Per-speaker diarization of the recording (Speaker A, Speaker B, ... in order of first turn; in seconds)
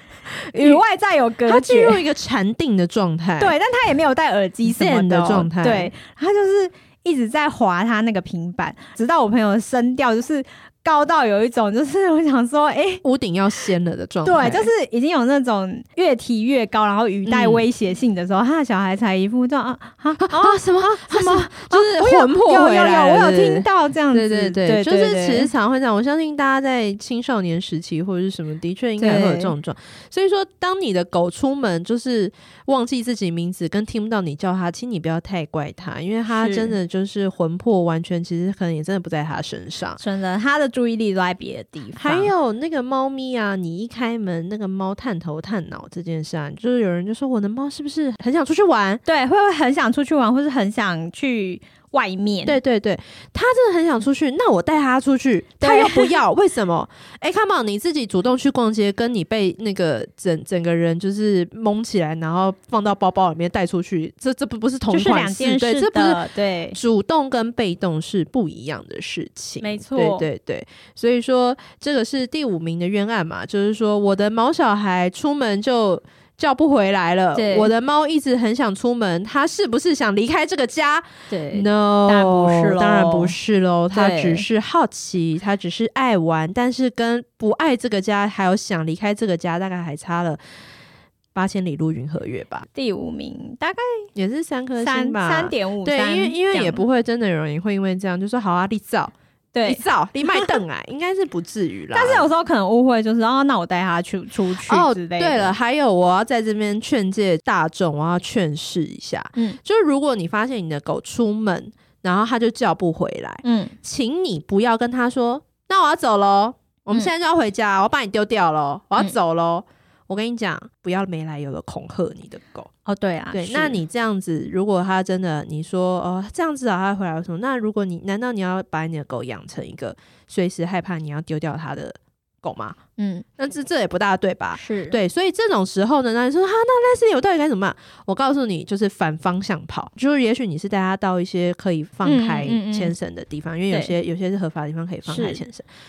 Speaker A: 0.5-0.8, 1.4-3.5, 4.6-5.9, 13.0-14.7, 17.2-17.6, 20.2-40.0, 42.0-49.0, 52.4-90.4, 91.3-92.7, 94.1-99.1, 99.6-102.3, 104.6-122.7, 123.3-132.8, 133.4-145.7
Speaker B: 0.5-2.0, 3.4-13.0, 14.2-25.5, 29.0-29.5, 36.3-36.7, 40.0-42.3, 49.0-52.6, 55.6-56.1, 64.9-66.8, 69.6-70.3, 77.3-77.7, 81.3-83.3, 83.9-84.5, 92.7-94.1, 94.8-96.8, 99.5-100.5, 101.9-105.5, 113.4-113.7, 122.8-123.8, 133.0-133.3, 134.5-135.0, 142.0-142.9, 145.1-145.4